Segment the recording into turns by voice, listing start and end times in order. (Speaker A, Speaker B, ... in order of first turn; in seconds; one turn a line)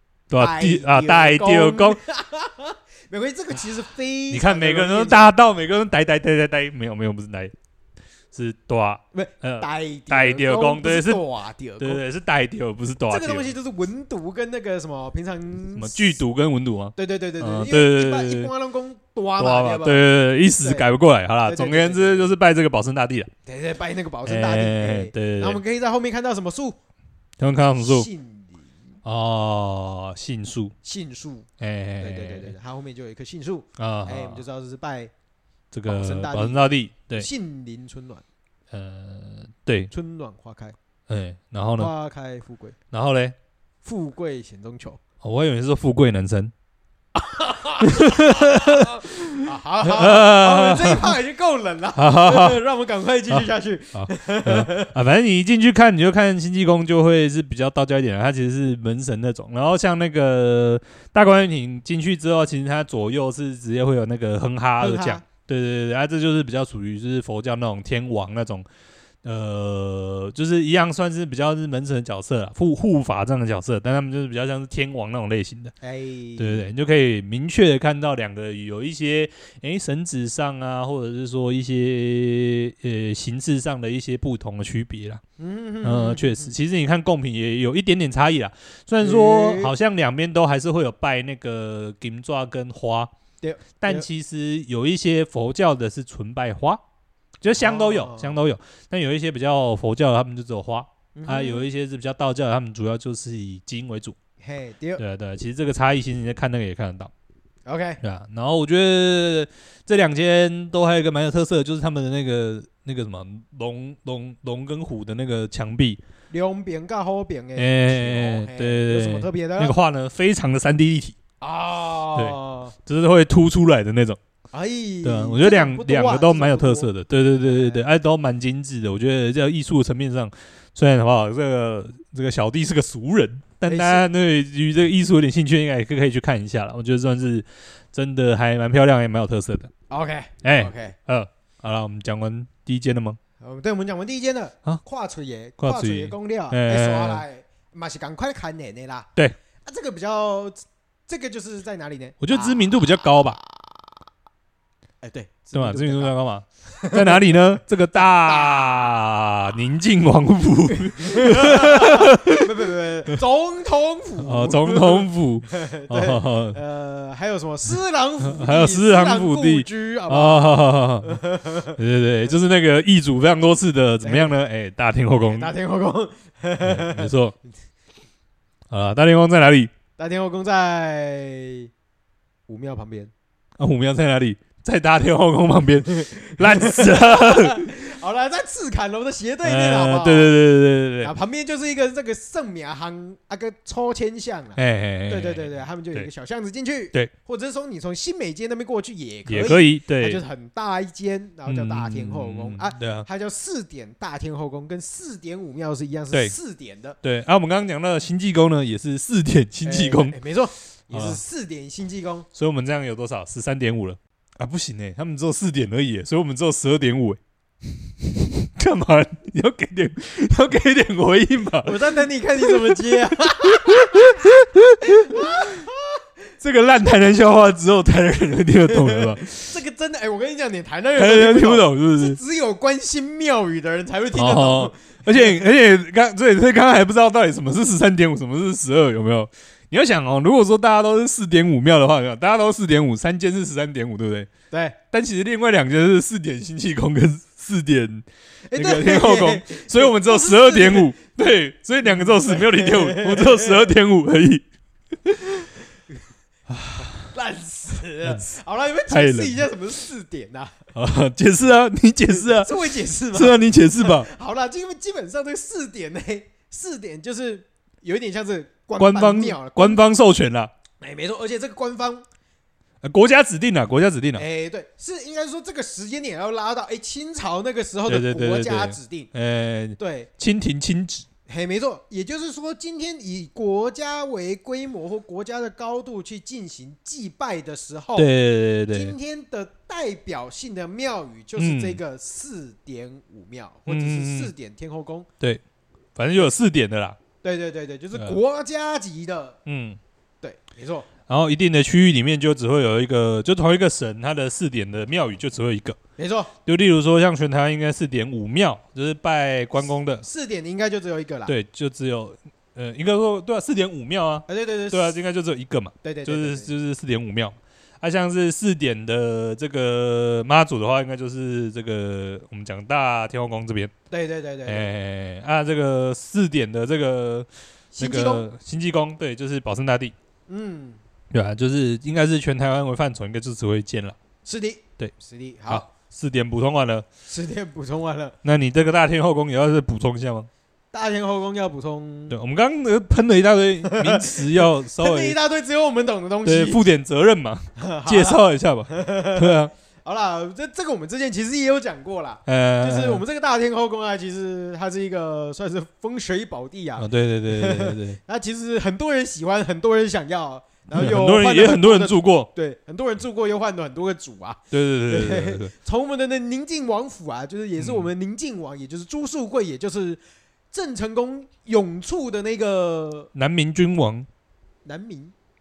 Speaker A: 0.3-2.0
Speaker B: 0.4-5.3
Speaker A: 4.3-7.5
Speaker A: 8.3-11.2
Speaker B: 9.1-12.0
Speaker A: 11.8-13.5
Speaker B: 13.1-16.1
Speaker A: 15.7-18.5
Speaker B: 16.9-20.1
Speaker A: 19.4-23.3
Speaker B: 20.6-20.9
Speaker B: 21.4-22.3
Speaker B: 23.4-26.8
Speaker A: 24.2-25.6
Speaker A: 27.4-28.1
Speaker B: 27.8-28.7
Speaker A: 29.0-30.7
Speaker B: 30.8-31.5
Speaker A: 31.6-32.5
Speaker B: 32.0-35.1
Speaker A: 33.8-34.4
Speaker A: 35.7-37.3
Speaker B: 35.9-38.2
Speaker A: 38.7-39.9
Speaker B: 39.9-40.7
Speaker A: 41.1-41.9
Speaker B: 41.8-42.8
Speaker A: 42.9-43.3
Speaker B: 43.8-45.0
Speaker A: 45.2-46.5
Speaker B: 47.1-54.9
Speaker A: 47.8-51.2
Speaker A: 52.0-52.6
Speaker A: 53.3-68.7
Speaker B: 64.8-65.2
Speaker A: 69.2-75.7
Speaker B: 75.8-76.7
Speaker A: 76.4-85.2
Speaker B: 85.4-86.5
Speaker A: 85.8-93.1
Speaker B: 89.0-89.7
Speaker B: 93.4-94.1
Speaker A: 93.8-96.8
Speaker A: 97.4-104.2
Speaker B: 97.5-98.4
Speaker B: 101.1-101.7
Speaker B: 104.4-105.0
Speaker A: 105.0-107.1
Speaker B: 107.7-108.0
Speaker A: 108.0-116.0
Speaker B: 116.3-119.8
Speaker A: 117.5-121.2
Speaker B: 121.4-122.7
Speaker A: 122.1-124.2
Speaker B: 124.5-127.8
Speaker A: 125.0-139.7
Speaker B: 133.7-134.0
Speaker B: 139.9-140.9
Speaker A: 140.4-143.2
Speaker B: 143.4-149.1
Speaker A: 145.6-147.2
Speaker B: 149.6-153.9
Speaker A: 152.2-153.4
Speaker B: 155.0-156.1
Speaker A: 155.5-162.5
Speaker B: 156.7-158.9
Speaker B: 160.7-171.8
Speaker A: 164.2-166.6
Speaker A: 168.2-171.2
Speaker A: 171.8-175.5
Speaker B: 174.0-174.3
Speaker B: 175.2-177.1
Speaker A: 176.6-177.3
Speaker A: 178.7-179.7
Speaker B: 180.0-181.7
Speaker B: 182.5-183.1
Speaker A: 183.6-187.7
Speaker B: 185.9-190.4
Speaker A: 189.4-191.1
Speaker B: 191.0-207.0
Speaker A: 194.6-196.1
Speaker A: 199.3-200.2
Speaker A: 201.4-203.1
Speaker A: 207.0-210.1
Speaker B: 209.6-212.3
Speaker A: 210.9-211.2
Speaker A: 212.3-221.9
Speaker B: 221.6-224.2
Speaker A: 222.4-225.6
Speaker B: 224.8-226.0
Speaker A: 226.4-229.6
Speaker B: 228.7-235.4
Speaker A: 230.9-232.2
Speaker A: 234.1-244.3
Speaker B: 244.5-244.8
Speaker A: 244.9-254.4
Speaker B: 248.5-250.9
Speaker B: 251.8-253.7
Speaker A: 255.0-255.5
Speaker A: 256.5-257.1
Speaker B: 256.8-260.6
Speaker A: 258.9-259.4
Speaker A: 260.7-264.1
Speaker B: 262.2-269.8
Speaker A: 268.8-270.5
Speaker B: 270.8-272.0
Speaker A: 272.8-274.2
Speaker B: 274.1-279.1
Speaker A: 277.9-281.1
Speaker B: 279.8-280.1
Speaker B: 281.3-288.1
Speaker A: 287.9-288.9
Speaker B: 288.7-295.1
Speaker A: 291.4-291.8
Speaker A: 293.7-294.3
Speaker A: 295.9-297.0
Speaker B: 297.2-299.4
Speaker A: 299.4-299.8
Speaker B: 300.2-300.9
Speaker A: 301.1-305.8
Speaker B: 306.0-306.3
Speaker A: 306.4-310.0
Speaker B: 310.0-311.3
Speaker A: 311.3-323.7
Speaker B: 314.3-314.9
Speaker B: 315.8-316.5
Speaker B: 323.9-324.7
Speaker A: 324.4-327.3
Speaker B: 327.7-328.2
Speaker A: 327.8-329.9
Speaker B: 330.3-330.8
Speaker A: 331.1-333.9
Speaker B: 334.2-335.7
Speaker A: 335.5-336.9
Speaker B: 337.1-338.1
Speaker A: 338.2-340.3
Speaker B: 340.7-342.1
Speaker A: 342.1-345.2
Speaker B: 343.6-346.6
Speaker A: 346.2-349.5
Speaker B: 347.6-370.0
Speaker A: 352.2-353.0
Speaker A: 356.8-358.0
Speaker A: 360.7-362.3
Speaker A: 364.5-365.5
Speaker A: 367.6-367.9
Speaker B: 370.5-373.1
Speaker A: 373.1-374.1
Speaker B: 374.6-375.1